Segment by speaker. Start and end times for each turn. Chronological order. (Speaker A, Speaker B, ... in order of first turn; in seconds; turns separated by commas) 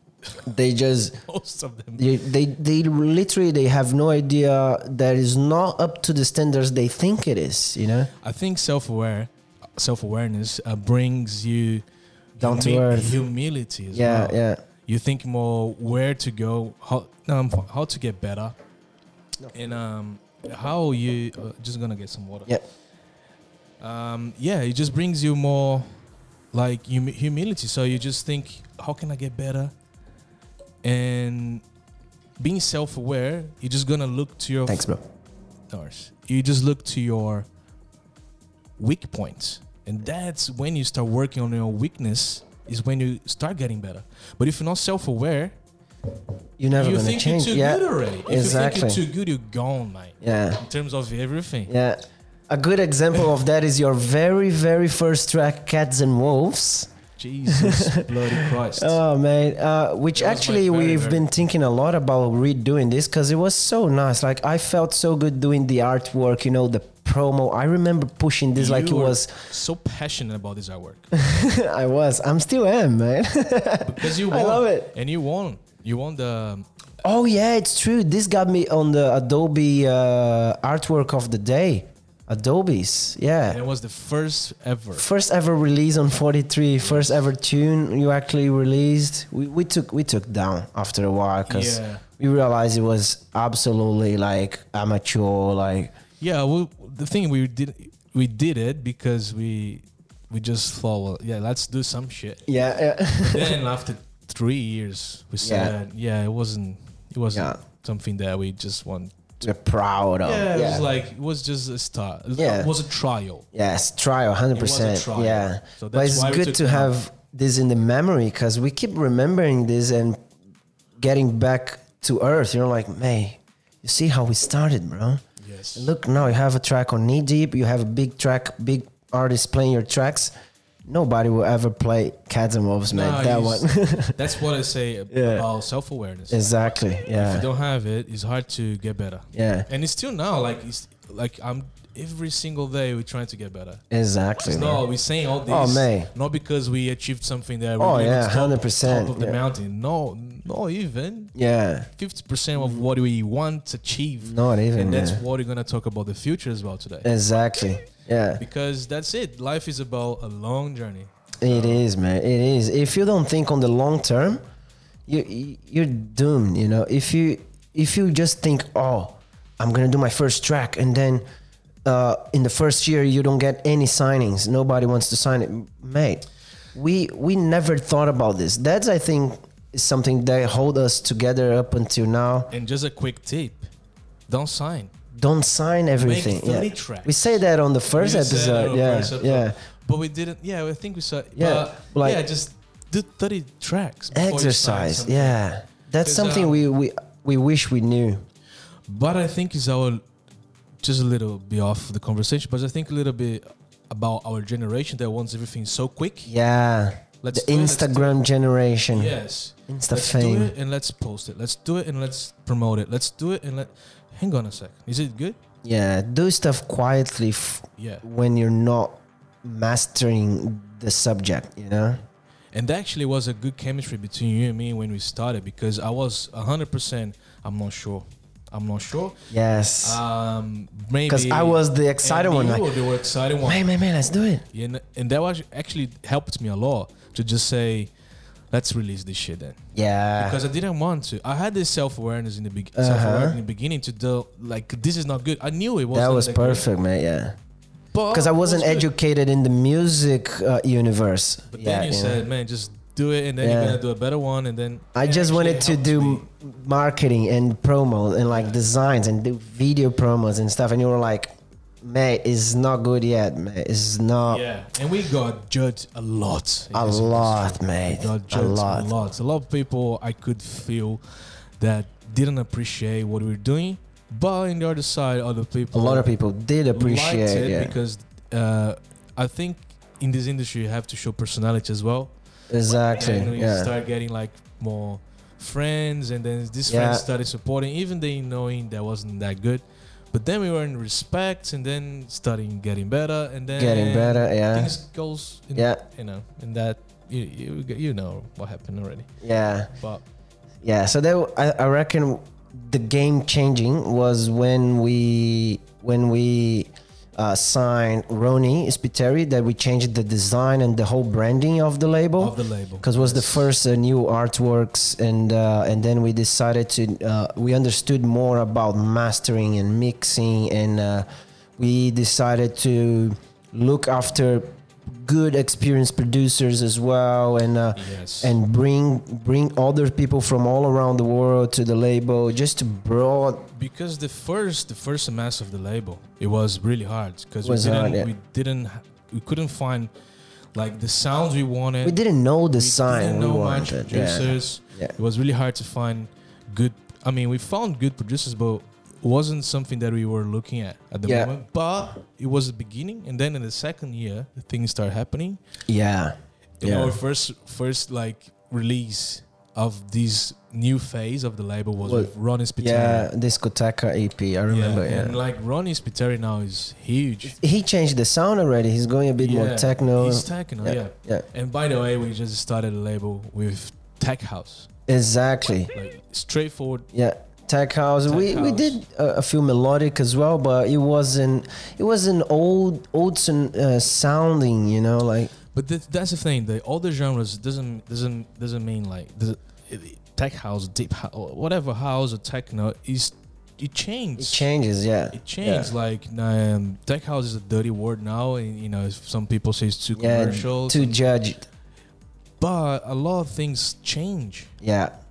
Speaker A: 0.4-1.2, Speaker B: 1.2-2.1, Speaker A: 2.0-8.1, Speaker B: 8.2-11.8, Speaker B: 12.3-18.5, Speaker A: 12.4-13.2, Speaker A: 13.9-14.6, Speaker B: 19.5-22.5, Speaker B: 23.8-25.9, Speaker B: 26.5-29.7, Speaker B: 30.8-31.6, Speaker B: 32.4-34.9, Speaker A: 34.7-35.0, Speaker B: 35.7-37.5, Speaker B: 38.8-45.5, Speaker A: 46.6-49.0, Speaker B: 46.7-51.7, Speaker A: 50.2-50.6, Speaker A: 51.7-56.9, Speaker B: 57.2-59.0, Speaker A: 57.5-69.3, Speaker B: 60.1-61.3, Speaker B: 68.5-71.1, Speaker A: 71.1-74.9, Speaker B: 73.8-76.7, Speaker A: 77.0-83.6, Speaker B: 83.5-85.0, Speaker A: 84.9-95.9, Speaker B: 86.8-87.2, Speaker B: 91.5-92.0, Speaker B: 96.2-102.5, Speaker A: 102.5-103.6, Speaker B: 103.2-109.4, Speaker A: 105.4-105.7, Speaker A: 107.3-107.6, Speaker A: 109.4-110.9, Speaker B: 110.2-113.5, Speaker A: 112.3-112.7, Speaker A: 113.5-120.2, Speaker B: 114.5-117.0, Speaker A: 121.0-125.2, Speaker B: 125.4-125.9, Speaker A: 125.8-130.3, Speaker A: 130.8-134.2, Speaker B: 132.9-136.6, Speaker A: 135.1-135.4, Speaker A: 136.3-137.4, Speaker B: 137.1-143.8, Speaker A: 139.3-139.7, Speaker A: 143.9-144.8, Speaker B: 144.4-151.3, Speaker A: 145.5-146.1, Speaker A: 147.8-149.4, Speaker A: 151.3-151.9, Speaker B: 151.9-157.1, Speaker A: 152.6-152.8, Speaker A: 154.2-155.2, Speaker A: 157.0-158.4, Speaker B: 158.4-161.8, Speaker A: 161.4-164.4, Speaker A: 165.1-171.2, Speaker A: 171.8-182.5, Speaker B: 182.5-183.7, Speaker B: 184.3-184.9, Speaker A: 185.1-189.5, Speaker B: 186.0-187.4, Speaker B: 187.9-195.4, Speaker A: 191.3-192.2, Speaker A: 194.1-198.2, Speaker B: 196.0-196.6, Speaker B: 198.9-200.0, Speaker B: 200.8-206.3, Speaker A: 206.3-209.1, Speaker B: 207.2-208.2, Speaker B: 208.9-215.4, Speaker A: 209.7-210.5, Speaker A: 215.6-222.0, Speaker B: 217.8-218.0, Speaker B: 222.5-229.2, Speaker A: 229.3-230.0, Speaker B: 229.8-233.7, Speaker A: 231.1-232.7, Speaker A: 233.4-234.4, Speaker B: 234.5-237.9, Speaker B: 238.5-239.6, Speaker A: 239.7-240.4, Speaker B: 240.2-246.6, Speaker A: 242.8-243.4, Speaker A: 245.9-247.3, Speaker B: 247.9-248.9, Speaker A: 248.1-252.2, Speaker B: 251.5-256.2, Speaker A: 253.4-253.8, Speaker A: 254.9-261.3, Speaker B: 258.3-258.6, Speaker A: 261.8-264.4, Speaker B: 264.3-271.0, Speaker A: 266.7-268.9, Speaker B: 271.6-276.1, Speaker A: 275.7-277.7, Speaker B: 276.7-282.1, Speaker A: 282.5-283.7, Speaker B: 282.9-299.1, Speaker A: 286.6-287.0, Speaker A: 293.6-294.7, Speaker A: 295.6-295.8, Speaker A: 299.2-299.7, Speaker B: 299.8-300.0, Speaker A: 300.6-321.1, Speaker B: 312.2-313.5, Speaker A: 321.6-333.5, Speaker B: 327.8-328.4, Speaker B: 333.5-339.9, Speaker A: 337.4-338.1, Speaker B: 340.5-342.0, Speaker A: 341.8-344.9, Speaker B: 342.6-355.4, Speaker A: 351.1-351.3, Speaker A: 355.7-356.9, Speaker B: 356.6-363.1, Speaker A: 361.8-365.2, Speaker B: 364.5-367.4, Speaker A: 367.3-371.2, Speaker B: 369.2-374.7, Speaker A: 374.9-375.7, Speaker B: 375.7-376.9, Speaker A: 376.9-385.3, Speaker B: 378.1-378.8, Speaker B: 385.5-394.5, Speaker A: 394.2-395.7, Speaker B: 395.1-401.0, Speaker A: 399.9-401.4, Speaker B: 402.4-404.5, Speaker A: 404.6-404.9